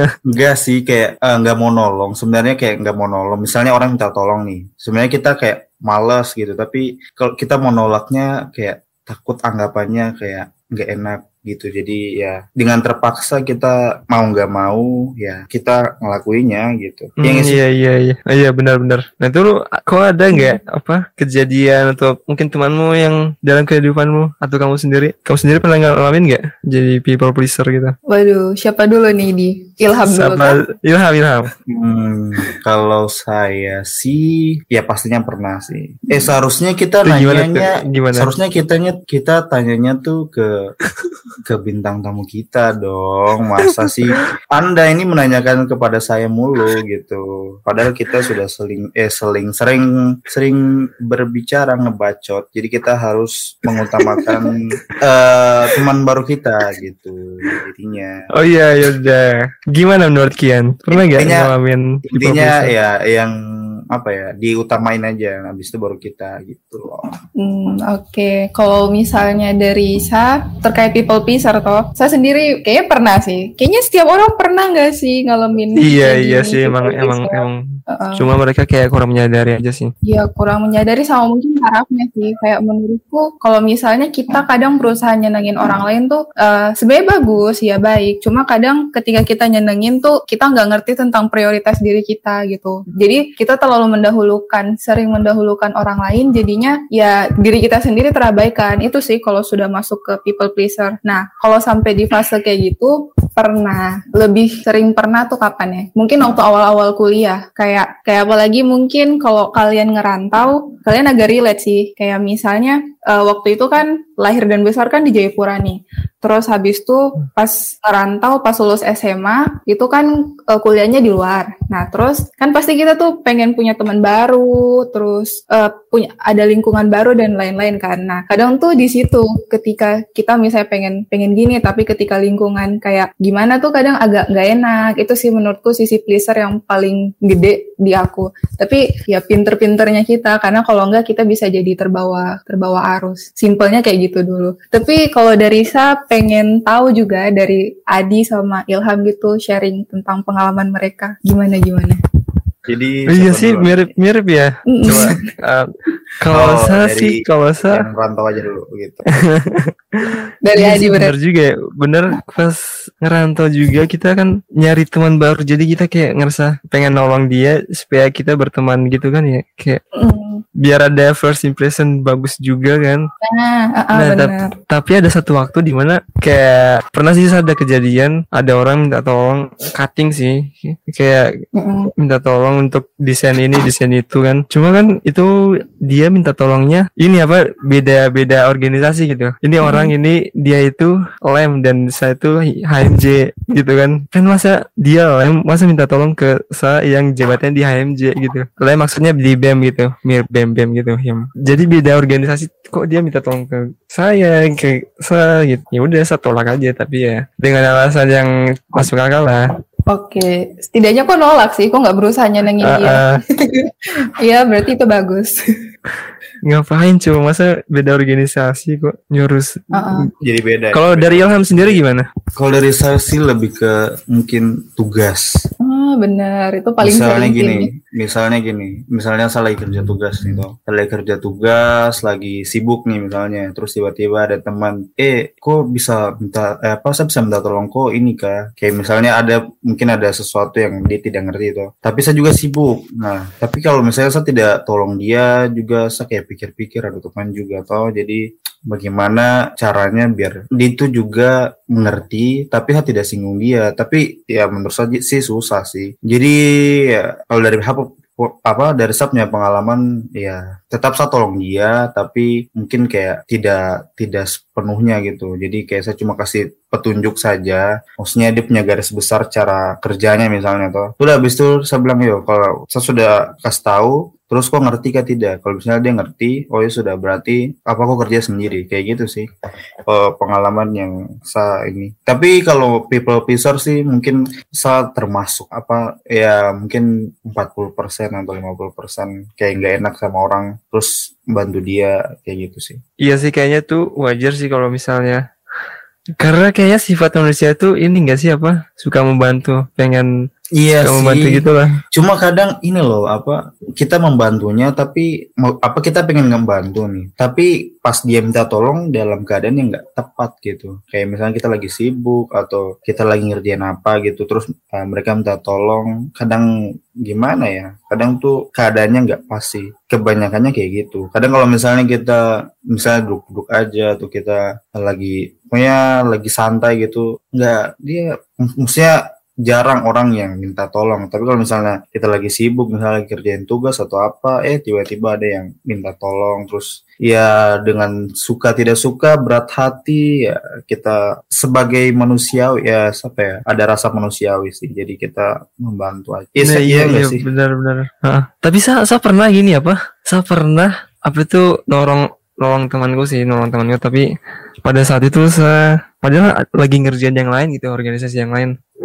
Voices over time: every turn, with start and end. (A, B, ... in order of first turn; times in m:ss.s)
0:00.3-0:17.6 A
0:17.2-0:27.9 B
0:20.3-0:20.6 C
0:28.1-0:30.6 C
0:30.1-0:31.5 B
0:31.7-0:40.5 A
0:37.0-0:38.3 B
0:41.4-0:58.1 A
0:43.7-0:44.2 B
0:58.4-1:02.7 B
1:00.9-1:01.5 A
1:02.1-1:03.3 A
1:03.9-1:07.2 A
1:07.4-1:18.3 C
1:15.8-1:17.6 B
1:18.2-1:19.9 B
1:20.0-2:32.0 C
2:32.7-2:33.9 A
2:33.1-2:35.7 B
2:34.7-2:35.2 C
2:36.2-2:37.8 B
2:36.3-2:39.0 A
2:39.3-2:49.8 B
2:40.4-2:41.1 C
2:49.9-2:50.4 C
2:50.6-2:53.0 B
2:53.2-2:54.5 C
2:53.9-3:01.2 B
3:01.6-3:01.9 C
3:02.0-3:05.3 B
3:05.9-3:29.4 B
3:09.6-3:09.9 C
3:29.9-3:33.7 C
3:32.6-3:33.1 B
3:34.2-3:35.4 C
3:36.5-3:39.6 B
3:39.7-3:40.1 C
3:40.2-3:41.8 A
3:40.7-3:42.1 B
3:42.4-3:45.3 A
3:45.6-3:47.7 C
3:46.8-4:39.3 A
4:39.8-4:52.8 A
4:53.0-4:55.2 B
4:56.2-5:00.1 B
5:00.6-5:16.5 A
5:00.8-5:01.8 B
5:17.0-5:47.2 A
5:46.4-5:54.0 B
5:54.6-5:58.5 B